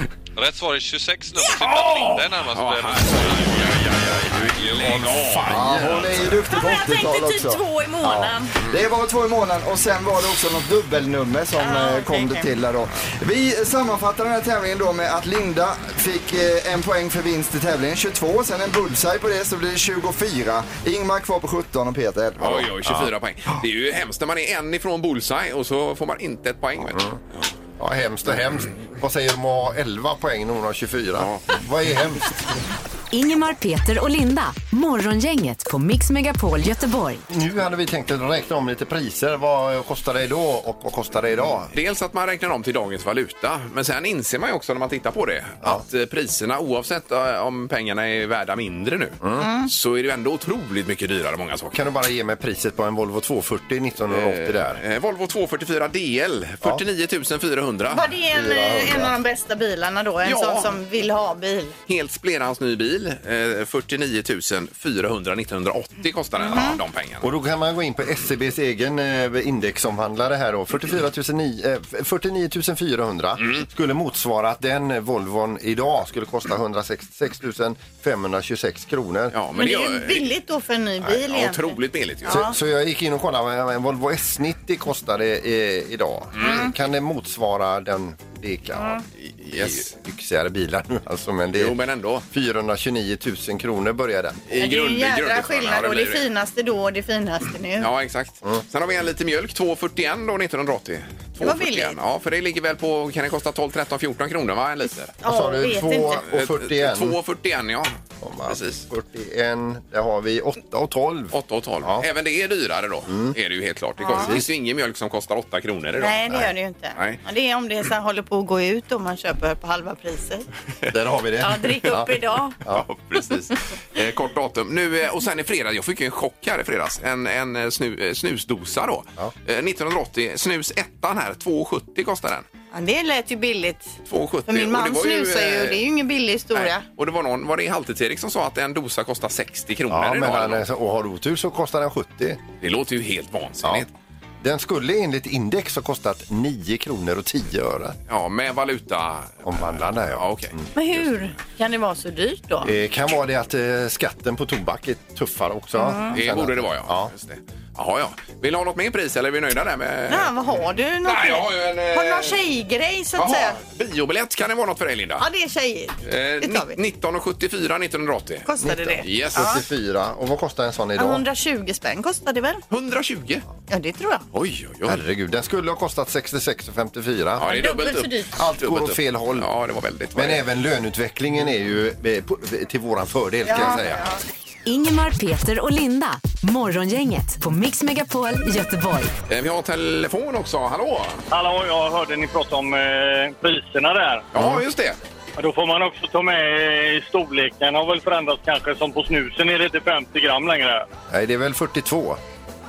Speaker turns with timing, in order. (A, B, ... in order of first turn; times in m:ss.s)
0:00.4-0:05.1 A
0:01.6-0:06.2 B
0:05.5-0:06.4 C
0:05.5-0:22.7 D
0:06.5-0:08.5 E
0:11.6-0:12.5 E
0:22.4-0:27.1 B
0:26.9-0:27.2 C
0:27.8-0:32.3 C
0:31.2-0:31.4 B
0:33.1-0:37.2 F
0:37.3-0:41.7 C
0:41.7-0:51.8 B
0:49.2-0:49.5 C
0:49.4-0:49.7 E
0:51.7-0:54.8 C
0:54.1-0:58.1 B
0:57.9-1:01.8 E
0:58.3-0:59.1 C
1:00.2-1:00.7 B
1:01.9-1:07.3 B
1:06.4-1:06.8 E
1:07.2-1:19.4 C
1:13.4-1:13.7 B
1:19.3-1:20.3 B
1:19.6-1:22.6 E
1:21.0-1:22.5 B
1:22.3-1:31.8 C
1:26.4-1:26.7 B
1:26.4-1:26.7 E
1:28.8-1:29.0 E
1:29.2-1:29.9 B
1:31.5-1:32.3 B
1:32.3-1:34.4 C
1:34.5-1:36.3 B
1:34.6-1:37.9 E
1:37.8-1:45.1 B
1:41.4-1:42.0 E
1:45.2-1:46.2 E
1:45.2-1:47.2 C
1:46.2-1:48.0 B
1:48.2-1:52.0 C
1:48.5-1:48.8 B
1:51.3-1:57.2 B
1:53.1-1:53.4 C
1:54.0-1:54.3 E
1:54.1-1:54.5 C
1:56.0-2:00.5 E
2:00.9-2:02.1 C
2:01.4-2:02.6 E
2:02.7-2:12.4 B
2:12.7-2:14.0 E
2:14.1-2:15.8 B
2:14.5-2:16.8 E
2:16.5-2:20.6 B
2:19.9-2:22.4 C
2:22.6-2:23.9 B
2:24.4-2:28.0 C
2:28.1-2:30.6 B
2:29.4-2:30.7 C
2:30.8-2:32.7 E
2:32.6-2:37.1 C
2:35.8-2:36.2 E
2:36.1-2:40.3 B
2:40.1-2:43.6 E
2:41.0-2:42.4 B
2:43.2-2:45.2 B
2:45.2-2:46.8 E
2:46.0-2:48.5 B
2:48.4-2:49.6 E
2:48.6-2:51.2 C
2:49.0-2:49.5 B
2:51.0-2:52.6 E
2:52.7-2:53.4 B
2:53.7-2:54.2 E
2:54.3-2:55.0 B
2:54.8-2:57.5 C
2:57.4-3:00.4 B
2:57.4-2:58.3 E
2:58.4-2:59.5 C
3:00.2-3:04.1 C
3:03.4-3:04.2 E
3:04.7-3:09.1 F
3:09.3-3:11.2 B
3:11.3-3:14.3 G
3:14.3-3:15.0 B
3:14.4-3:14.6 C
3:15.4-3:20.9 G
3:21.1-3:22.2 C